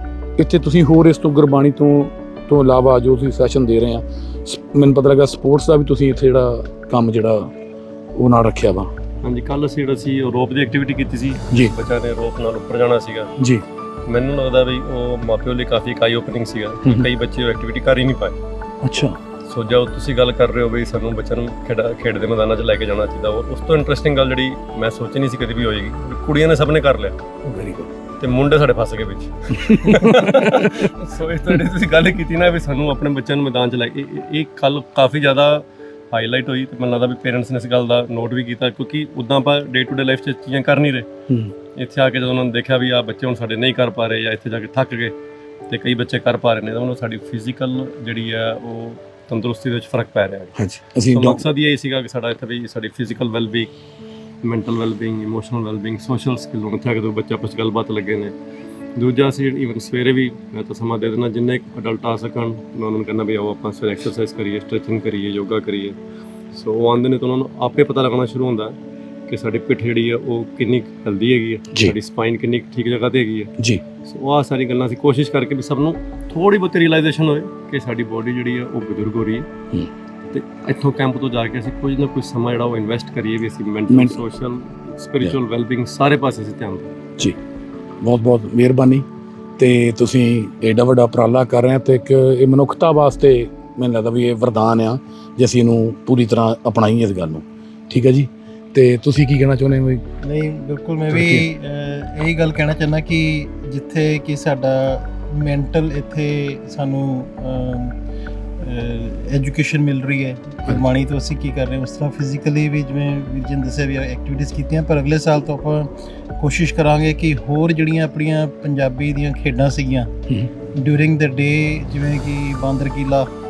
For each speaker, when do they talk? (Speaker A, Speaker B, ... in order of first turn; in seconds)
Speaker A: 0.4-7.5, 8.2-8.9, 13.4-13.6, 18.8-19.2, 27.4-27.9, 29.7-30.7, 50.6-51.4, 83.9-84.2, 88.0-89.1, 89.6-100.0, 101.1-101.5
Speaker B: 9.2-13.3, 14.1-18.4, 19.5-27.2, 28.2-41.1, 41.8-45.1, 45.7-53.7, 54.4-58.4, 59.0-66.0, 66.5-68.8, 69.3-73.5, 74.0-79.5, 80.3-86.9
Speaker C: 100.2-108.0, 108.6-120.1, 120.8-123.3